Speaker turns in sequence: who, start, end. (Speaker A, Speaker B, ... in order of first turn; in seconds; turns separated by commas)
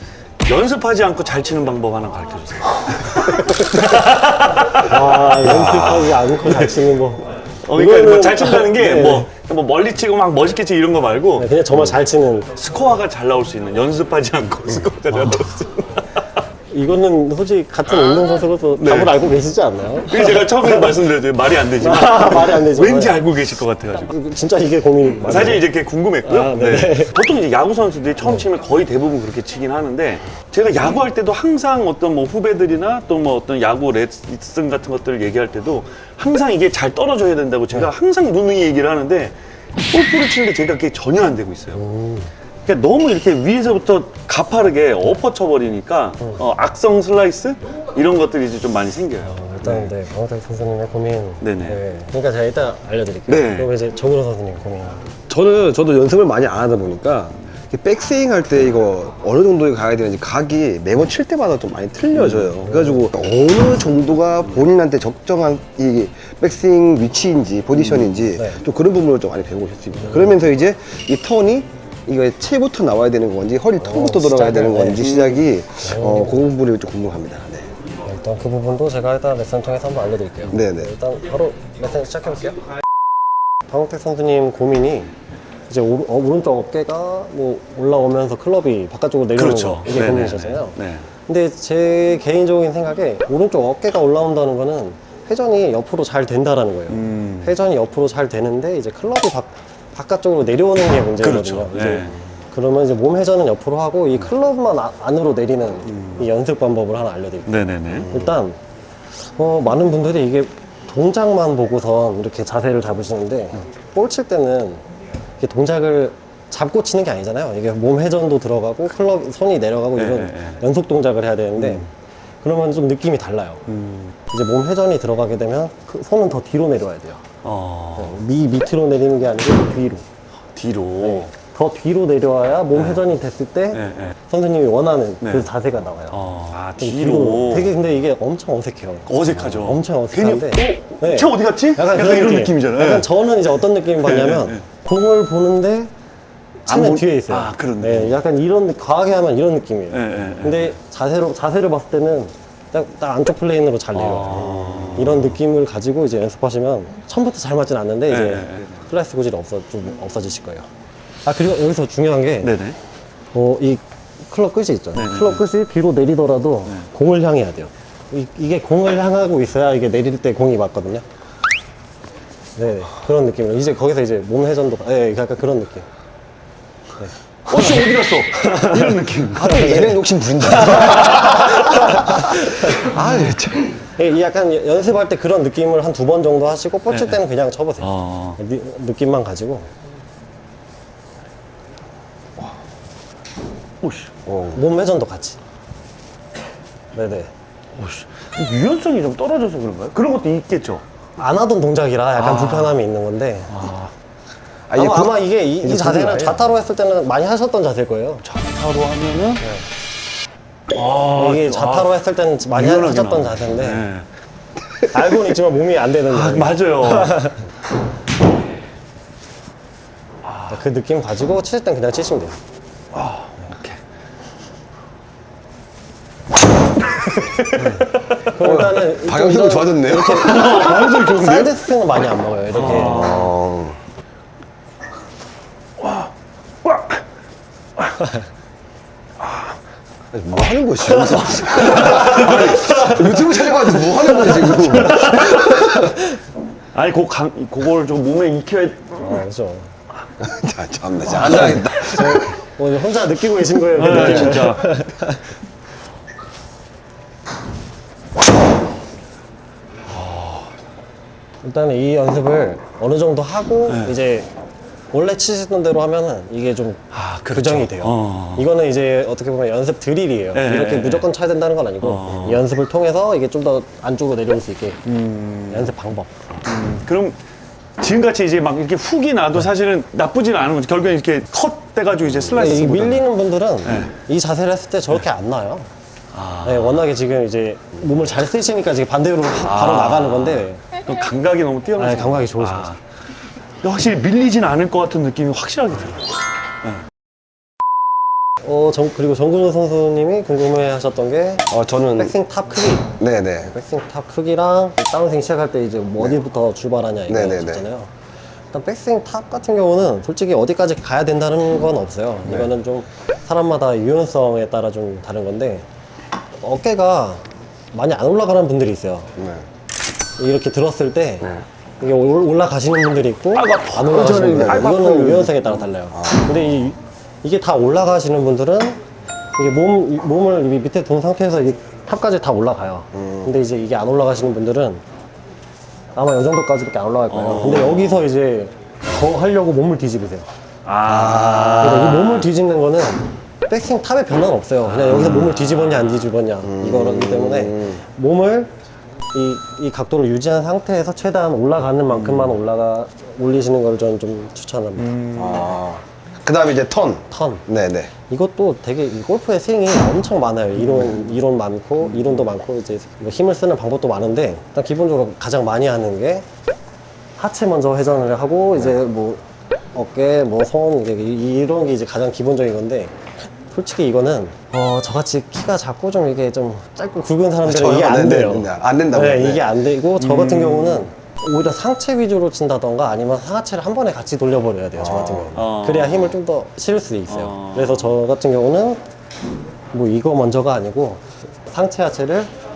Speaker A: 0.4-6.9, Speaker B: 3.2-3.9, Speaker B: 4.7-9.3, Speaker A: 7.6-11.9, Speaker B: 11.4-12.5, Speaker A: 12.6-16.2, Speaker B: 16.7-21.0, Speaker A: 18.8-19.2, Speaker A: 20.1-24.1, Speaker B: 21.8-23.2, Speaker B: 24.1-25.7, Speaker A: 25.1-39.4, Speaker B: 26.2-27.2, Speaker A: 39.9-41.8, Speaker B: 41.7-42.3, Speaker A: 42.7-49.9, Speaker B: 49.2-55.1, Speaker A: 51.4-51.8, Speaker A: 53.3-53.7, Speaker C: 55.3-77.7, Speaker A: 62.2-62.5, Speaker B: 62.6-63.1, Speaker B: 68.3-68.6, Speaker B: 70.0-70.3, Speaker B: 73.8-75.2, Speaker A: 75.0-75.4, Speaker B: 75.8-76.5, Speaker B: 78.1-82.6, Speaker C: 80.5-80.9, Speaker B: 83.7-85.1, Speaker B: 85.7-108.6, Speaker A: 89.4-91.1, Speaker A: 96.9-97.5, Speaker A: 101.2-102.2, Speaker A: 105.9-106.2, Speaker A: 107.5-108.2, Speaker B: 109.2-114.8, Speaker B: 115.4-121.9, Speaker A: 120.0-120.6, Speaker A: 121.6-121.9, Speaker B: 122.4-123.6, Speaker A: 123.7-124.1, Speaker B: 124.3-127.2, Speaker A: 127.4-128.2, Speaker B: 128.0-130.1, Speaker A: 130.5-131.3, Speaker B: 131.0-136.2, Speaker A: 132.7-133.1, Speaker A: 133.7-134.2, Speaker A: 136.1-137.8, Speaker B: 136.8-145.9, Speaker A: 139.1-143.1, Speaker A: 144.0-144.6, Speaker B: 146.7-160.7, Speaker A: 146.7-148.2, Speaker A: 149.9-150.7, Speaker A: 153.9-155.4, Speaker A: 158.1-158.8, Speaker B: 161.2-162.6, Speaker A: 162.4-162.8, Speaker B: 163.3-171.0, Speaker A: 164.9-165.4, Speaker B: 172.6-175.9, Speaker B: 177.0-179.2, Speaker A: 177.5-180.0, Speaker C: 179.3-183.8, Speaker B: 180.4-182.8, Speaker A: 180.6-181.6, Speaker B: 183.9-189.7, Speaker A: 186.9-187.2, Speaker A: 187.8-188.4, Speaker A: 193.8-194.1, Speaker C: 194.3-194.6, Speaker B: 194.5-195.4, Speaker B: 196.9-197.3, Speaker A: 197.8-200.8, Speaker B: 201.2-203.7, Speaker A: 202.2-202.8, Speaker A: 203.5-203.9, Speaker C: 204.7-206.3, Speaker B: 204.7-208.2, Speaker A: 206.0-206.4, Speaker A: 208.2-209.4, Speaker B: 209.4-209.7, Speaker A: 210.7-211.9, Speaker B: 211.1-213.8, Speaker A: 212.5-214.1, Speaker B: 214.9-217.4, Speaker A: 216.1-217.3, Speaker A: 220.2-220.6, Speaker B: 220.5-222.4, Speaker A: 222.9-223.8, Speaker B: 227.5-233.3, Speaker A: 227.6-227.9, Speaker C: 228.4-230.7, Speaker A: 230.2-231.6, Speaker A: 232.5-233.3, Speaker C: 232.8-233.8, Speaker A: 235.8-236.1, Speaker C: 240.1-246.0, Speaker A: 241.0-243.4, Speaker A: 243.9-245.8, Speaker A: 246.7-249.2, Speaker B: 249.0-249.7, Speaker C: 250.2-252.3, Speaker A: 251.2-251.6, Speaker B: 251.2-255.2, Speaker A: 253.8-254.7, Speaker C: 253.8-254.4, Speaker A: 259.9-260.5, Speaker B: 261.4-264.3, Speaker A: 263.7-263.9, Speaker B: 264.9-274.8, Speaker A: 266.9-268.4, Speaker A: 270.3-271.1, Speaker A: 271.8-272.4, Speaker A: 274.9-275.7, Speaker B: 275.5-276.4, Speaker A: 276.4-277.2, Speaker A: 277.8-283.1, Speaker B: 282.3-285.7, Speaker A: 283.6-283.9, Speaker A: 286.1-286.9, Speaker B: 286.4-290.6, Speaker A: 289.4-292.8, Speaker B: 291.8-292.7, Speaker A: 293.6-296.1, Speaker B: 298.4-307.9, Speaker C: 301.5-302.1, Speaker C: 303.0-303.5, Speaker C: 307.1-307.6, Speaker B: 308.5-315.7, Speaker B: 316.4-319.1, Speaker C: 319.2-319.4, Speaker B: 320.2-328.8, Speaker A: 323.4-325.7, Speaker C: 323.9-324.9, Speaker C: 326.0-326.3, Speaker B: 329.4-334.8, Speaker B: 335.9-340.3, Speaker A: 337.1-338.1, Speaker A: 340.6-342.3, Speaker B: 341.1-348.5, Speaker A: 344.7-345.9, Speaker C: 346.4-347.8, Speaker B: 349.1-355.0, Speaker A: 351.9-352.4, Speaker A: 354.8-355.6, Speaker C: 355.1-357.9, Speaker B: 357.1-357.4, Speaker B: 358.1-366.3, Speaker B: 367.2-388.8, Speaker C: 377.4-379.5, Speaker A: 380.0-380.9, Speaker C: 384.8-385.3, Speaker A: 385.4-386.2, Speaker A: 387.1-387.9, Speaker B: 389.7-392.3